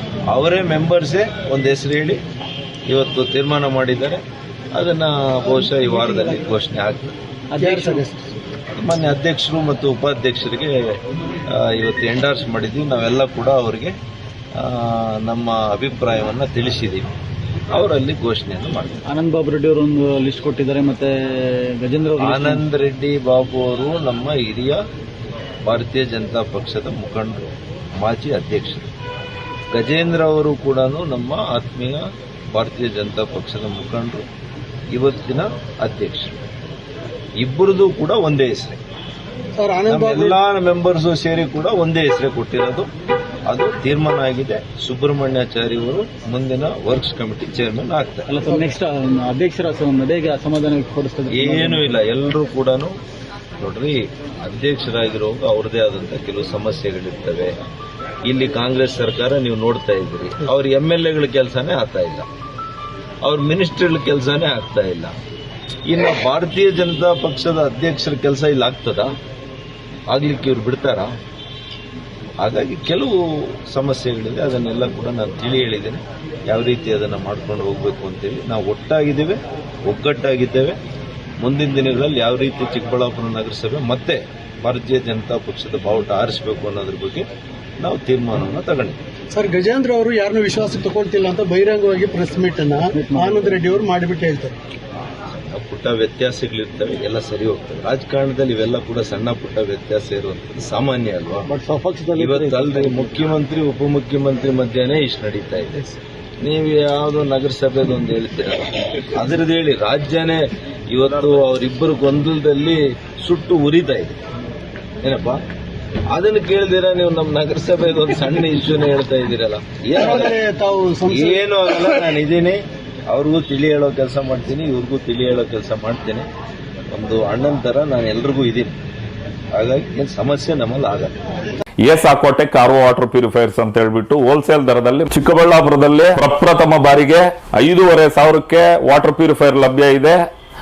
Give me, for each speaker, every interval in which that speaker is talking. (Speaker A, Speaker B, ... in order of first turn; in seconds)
Speaker A: 0.3-2.2, 2.9-4.2, 4.7-7.1, 8.8-10.7, 11.5-13.9, 14.6-17.1, 17.7-19.0, 22.2-24.8, 25.6-28.9, 29.7-34.2, 34.9-36.4, 37.4-38.8, 39.9-42.9, 43.5-48.4, 51.3-52.9, 53.6-57.5, 58.2-62.3, 63.2-65.2, 65.9-69.1, 70.1-71.1, 72.4-80.8, 81.4-87.2, 87.8-89.0, 95.3-101.5, 102.2-105.8, 106.4-114.2, 115.0-115.4, 116.1-120.3, 121.1-126.3, 126.9-128.7, 129.5-131.1
Speaker B: 5.5-6.4, 7.6-8.3, 39.5-40.4, 89.3-94.5, 119.9-121.4
Speaker C: 7.5-8.1, 19.1-22.6, 48.3-52.0, 92.8-93.7, 101.5-103.1
Speaker D: 131.8-140.2